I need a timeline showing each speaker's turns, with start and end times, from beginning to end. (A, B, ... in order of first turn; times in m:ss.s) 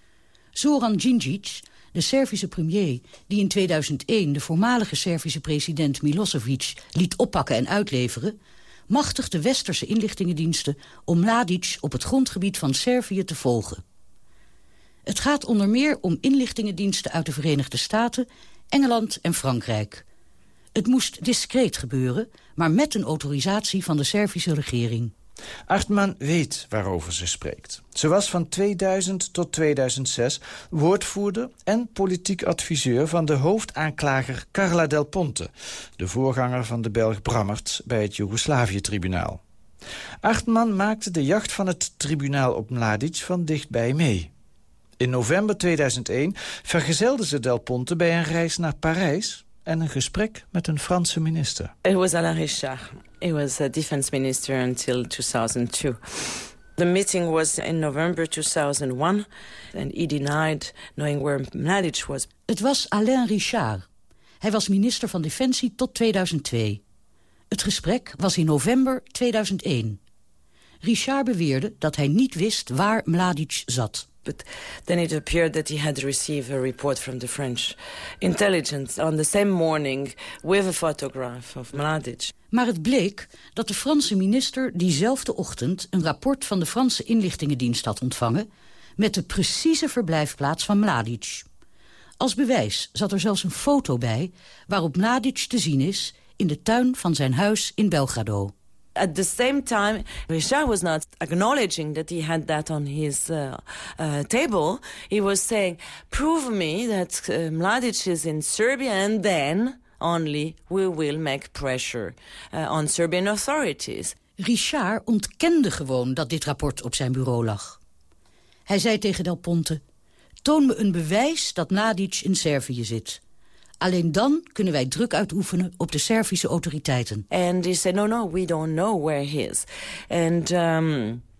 0:00.6-0:08.4 A
0:08.9-0:13.8 A
0:15.1-0:20.0 A
0:20.8-0:25.1 A
0:25.7-0:39.4 B
0:40.2-0:44.3 B
0:45.0-0:51.7 B
0:51.8-1:02.3 C
1:02.5-1:03.8 A
1:04.4-1:06.8 A
1:07.5-1:10.0 A
1:10.8-1:14.1 A
1:14.2-1:22.3 C
1:22.5-1:28.5 A
1:29.0-1:31.4 A
1:32.2-1:38.5 A
1:39.0-1:54.1 C
1:54.4-1:57.8 A
1:58.7-1:59.8 A
2:00.4-2:03.2 A
2:03.8-2:07.2 A
2:07.3-2:11.2 C